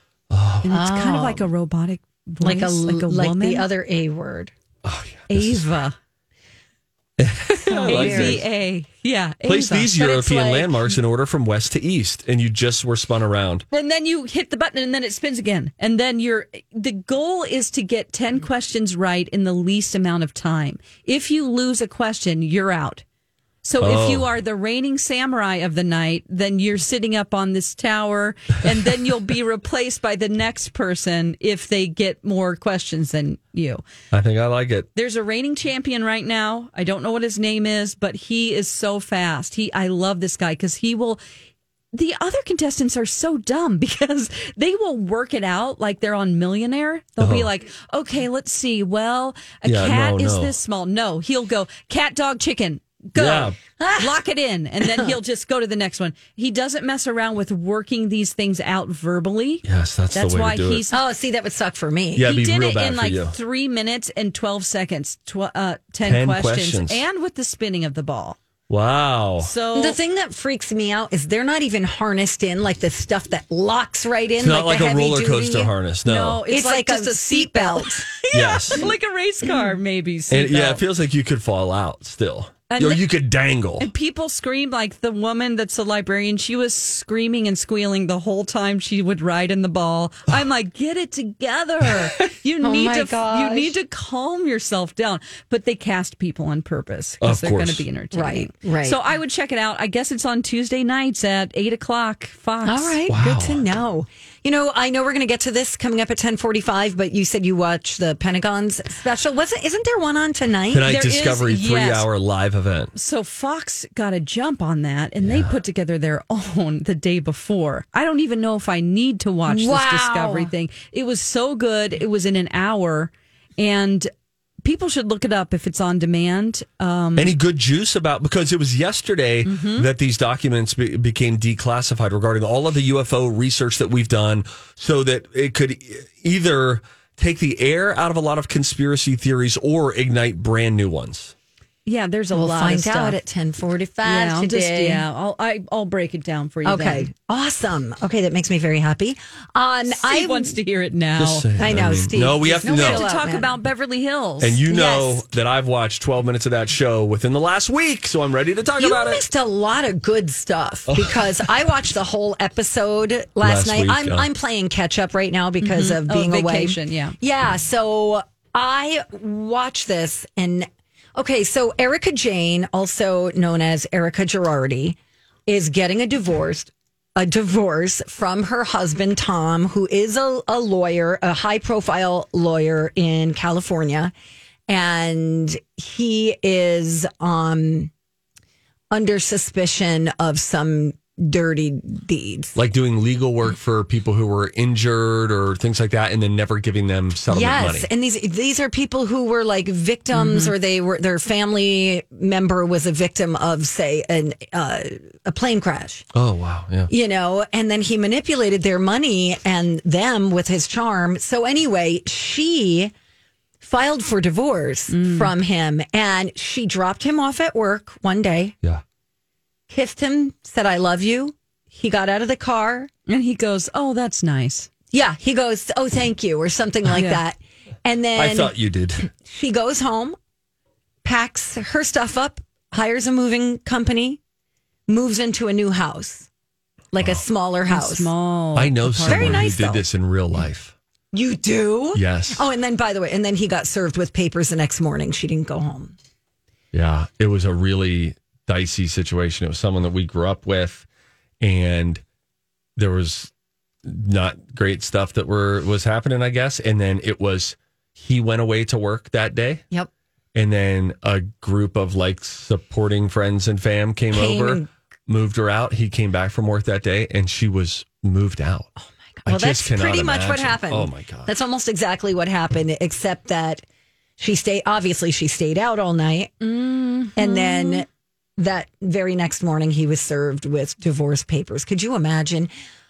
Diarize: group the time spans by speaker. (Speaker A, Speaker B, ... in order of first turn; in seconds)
Speaker A: 0.3-0.7, 4.8-5.7, 7.2-8.4, 9.4-13.7, 23.8-24.3, 34.1-34.9, 47.2-47.5, 49.6-50.5, 53.1-53.6, 59.6-60.8, 62.2-63.4, 66.0-67.0, 68.7-69.5, 74.4-76.4, 78.3-78.8, 80.3-83.9, 97.2-97.8, 103.1-103.6, 110.7-112.9, 115.2-115.5, 127.2-141.3, 151.2-153.1, 154.4-159.2, 160.9-161.2, 163.4-164.3, 192.6-197.9, 206.2-206.9, 228.2-229.1, 238.6-240.7, 241.9-242.4, 246.7-250.9, 251.4-252.0, 252.8-253.3, 253.8-259.6, 260.4-268.7, 269.2-271.3
Speaker B: 0.6-3.7, 5.3-6.0, 7.7-10.3, 13.7-23.0, 23.6-33.8, 35.0-41.2, 41.9-61.0, 62.2-68.4, 69.4-70.0, 76.0-80.8, 82.7-83.0, 83.8-103.0, 110.9-112.1, 113.0-124.1, 124.6-127.3, 129.4-129.9, 141.9-143.2, 144.1-147.1, 149.9-151.5, 152.6-154.6, 165.6-167.2, 200.1-200.5, 214.9-215.3, 223.1-224.7, 226.9-227.2, 237.7-239.7, 276.4-277.9
Speaker C: 0.7-1.5, 2.4-4.5, 7.7-8.4, 10.0-10.9, 53.8-54.2, 54.8-55.1, 60.9-62.3, 69.7-75.7, 76.5-78.1, 92.6-93.8, 98.1-99.0, 102.6-111.0, 119.5-120.5, 142.3-145.1, 146.6-150.6, 151.6-153.6, 154.7-155.2, 158.8-184.1, 184.7-187.9, 188.9-192.6, 197.3-206.1, 206.9-212.9, 213.6-218.6, 219.7-222.9, 224.9-230.2, 231.0-234.2, 234.9-236.3, 236.9-238.1, 239.1-239.8, 241.1-245.9, 264.1-264.7, 268.8-273.6, 274.2-276.3, 277.1-282.5